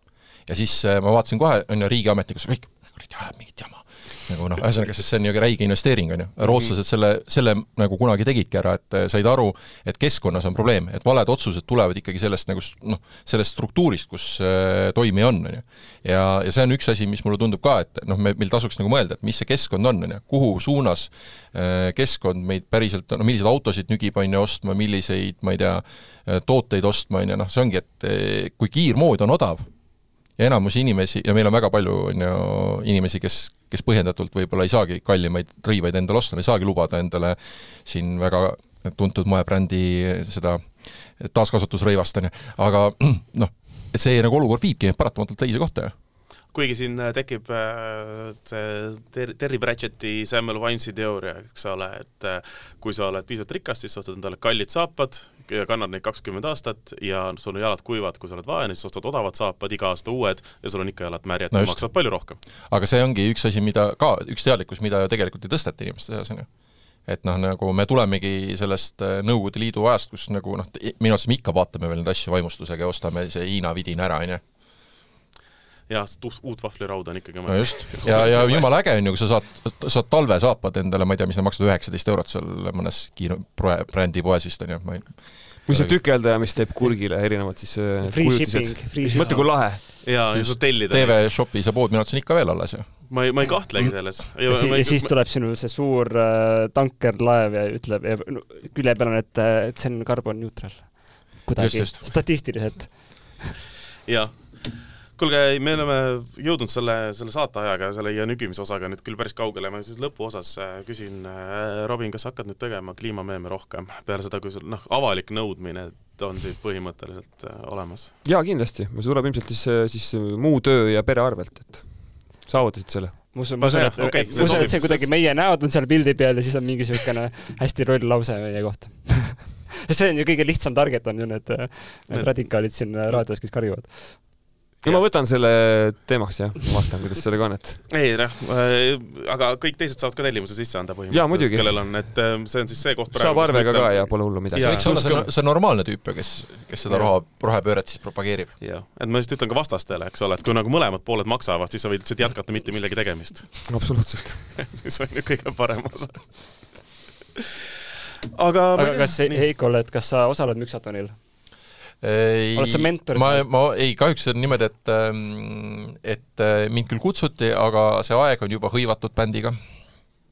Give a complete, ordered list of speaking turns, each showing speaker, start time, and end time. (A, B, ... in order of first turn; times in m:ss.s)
0:00.4-0:29.7 A
0:06.4-0:06.7 B
0:30.4-0:45.9 A
0:46.5-1:02.4 B
1:01.5-1:01.8 A
1:02.7-1:06.5 A
1:07.0-1:14.4 A
1:15.9-1:18.7 B
1:17.5-1:26.0 A
1:25.6-1:29.8 C
1:28.0-1:29.6 D
1:29.8-1:31.3 B
1:30.3-1:33.9 A
1:33.1-1:35.1 B
1:34.5-1:43.4 D
1:41.6-1:42.2 A
1:44.0-1:58.2 B
1:58.2-2:03.2 C
2:03.3-2:14.4 D
2:03.6-2:05.1 B
2:04.4-2:04.7 C
2:12.1-2:13.2 B
2:14.8-2:17.8 C
2:14.8-2:15.1 B
2:17.9-2:25.3 B
2:21.1-2:21.9 C
2:23.1-2:25.3 C
2:24.6-2:28.5 A
2:26.8-2:27.1 B
2:28.6-2:36.8 B
2:33.7-2:34.6 C
2:38.3-2:39.4 B
2:38.8-2:41.2 D
2:42.0-2:49.6 A
2:42.5-2:43.5 D